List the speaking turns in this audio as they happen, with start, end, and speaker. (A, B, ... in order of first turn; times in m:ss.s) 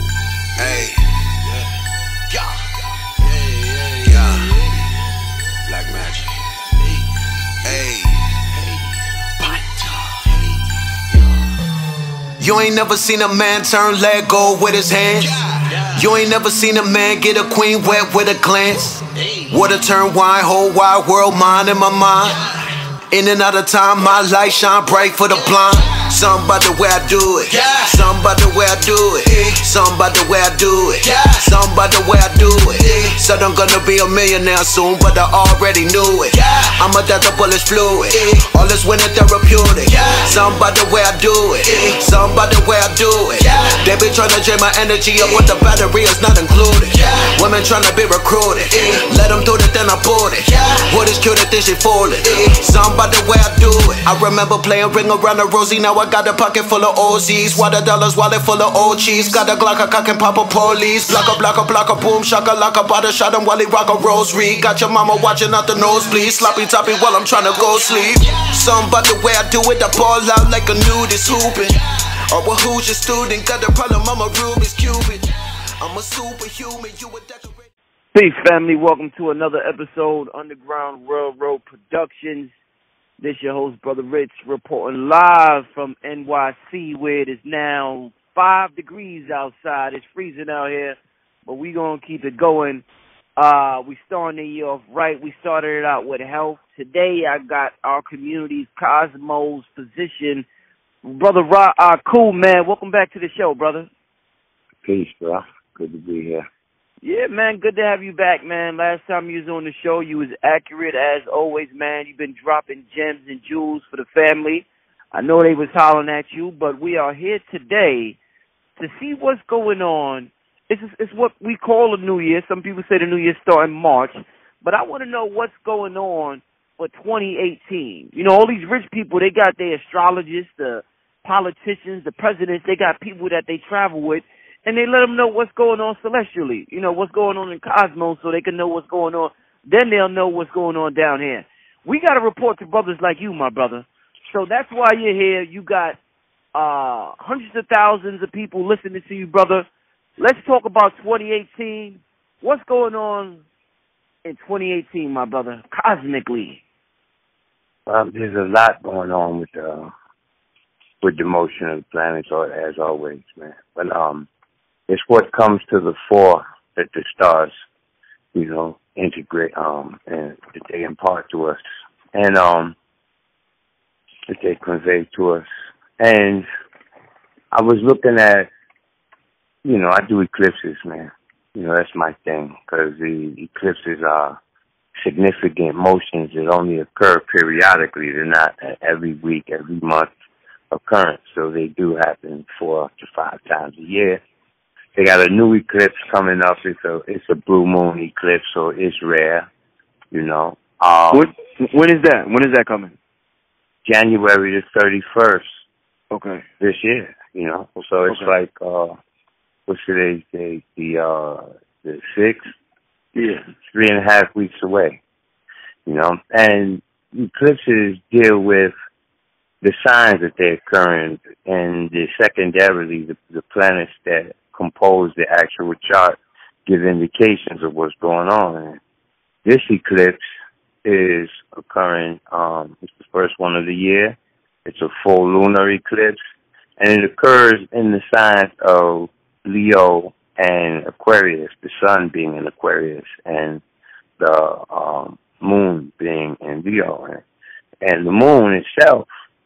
0:00.6-0:01.4 A
0:02.3-0:02.8 A
0:03.9-0:04.9 A
0:05.7-0:06.5 A
0:07.6-0:08.8 A
0:09.4-0:10.5 A
0:12.4-0:22.5 A
0:23.1-1:17.7 A
1:18.1-1:22.5 B
1:23.2-1:32.8 B
1:33.4-1:40.4 B
1:41.0-1:43.9 B
1:44.8-1:46.4 C
1:47.0-1:58.2 B
1:58.8-2:26.0 B
2:26.5-2:29.7 B
2:30.2-2:33.4 B
2:34.2-2:36.6 B
2:37.9-2:39.9 C
2:41.0-2:44.3 C
2:44.9-2:47.5 C
2:48.3-2:51.6 C
2:52.1-2:52.8 C
2:54.3-2:55.5 C
2:56.0-2:56.5 C
2:57.5-2:58.5 C
2:59.6-3:04.4 C
3:05.0-3:10.1 C
3:10.7-3:14.2 C
3:15.0-3:19.5 C
3:20.1-3:21.3 C
3:21.1-3:22.9 B
3:23.8-3:25.5 C
3:26.1-3:26.4 B
3:26.6-3:29.0 C
3:29.7-3:32.5 C
3:33.2-3:33.4 B
3:33.7-3:35.0 C
3:35.9-3:38.7 C
3:39.6-3:48.8 C
3:49.4-3:50.2 C
3:50.8-3:56.2 C
3:56.8-4:03.6 C
4:04.2-4:07.2 C
4:07.8-4:09.1 C